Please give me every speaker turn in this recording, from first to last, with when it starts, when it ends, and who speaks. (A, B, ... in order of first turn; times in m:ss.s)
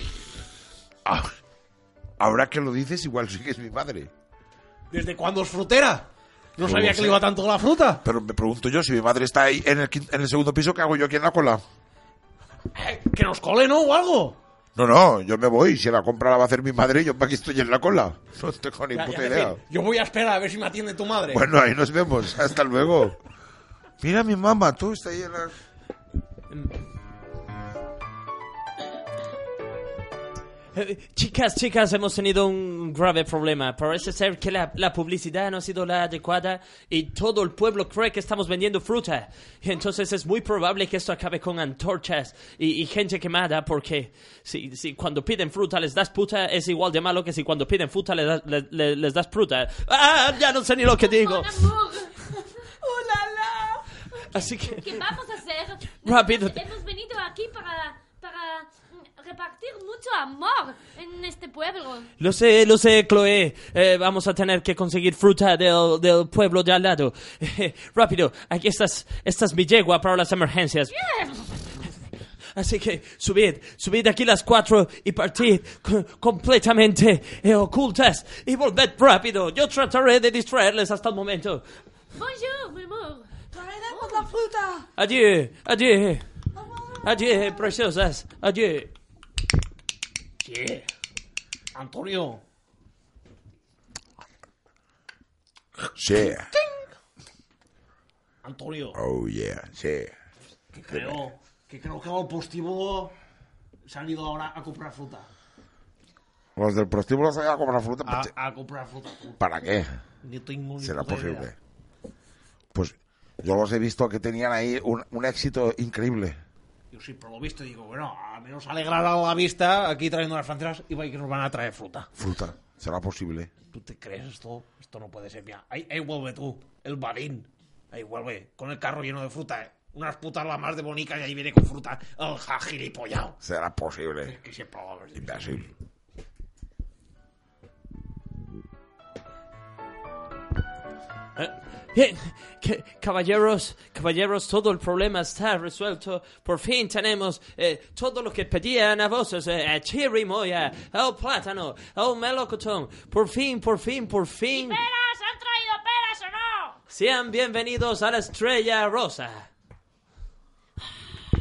0:01.0-0:01.4 A
0:02.2-0:04.1 A
0:04.9-0:08.0 B
0:06.6-0:07.3 A
0:08.0-0:11.6 A
0:12.7-0:14.4 B
0:14.8-0:19.6 A
0:18.9-0:21.5 B
0:21.3-0:23.2 A
0:24.0-0:25.5 A
0:30.7-0:51.7 C
0:51.0-0:52.1 D
0:52.8-0:53.9 E
0:54.3-0:55.0 C
0:54.7-1:02.1 D
0:56.0-0:56.6 C
1:02.2-1:11.0 C
1:10.9-1:11.7 D
1:12.5-1:21.6 C
1:22.1-1:23.3 D
1:23.5-1:24.9 E
1:23.9-1:24.3 D
1:25.0-1:26.3 C
1:26.6-1:27.0 E
1:27.0-1:28.9 C
1:30.4-1:30.9 B
1:31.7-1:32.4 B
1:35.9-1:36.5 A
1:36.5-1:36.8 B
1:38.4-1:39.0 B
1:38.9-1:40.1 A
1:40.7-1:43.1 B
1:40.9-1:41.3 A
1:43.9-1:45.3 B
1:46.6-1:48.3 A
1:48.1-1:49.4 B
1:49.4-1:50.0 A
1:50.2-1:51.5 B
1:50.8-1:51.6 A
1:52.7-1:56.4 A
1:56.9-2:02.1 B
2:02.2-2:03.5 A
2:03.7-2:13.4 B
2:13.4-2:14.3 A
2:14.2-2:15.7 B
2:15.2-2:15.7 A
2:21.4-2:34.8 C
2:34.5-2:36.8 D
2:36.9-2:39.5 C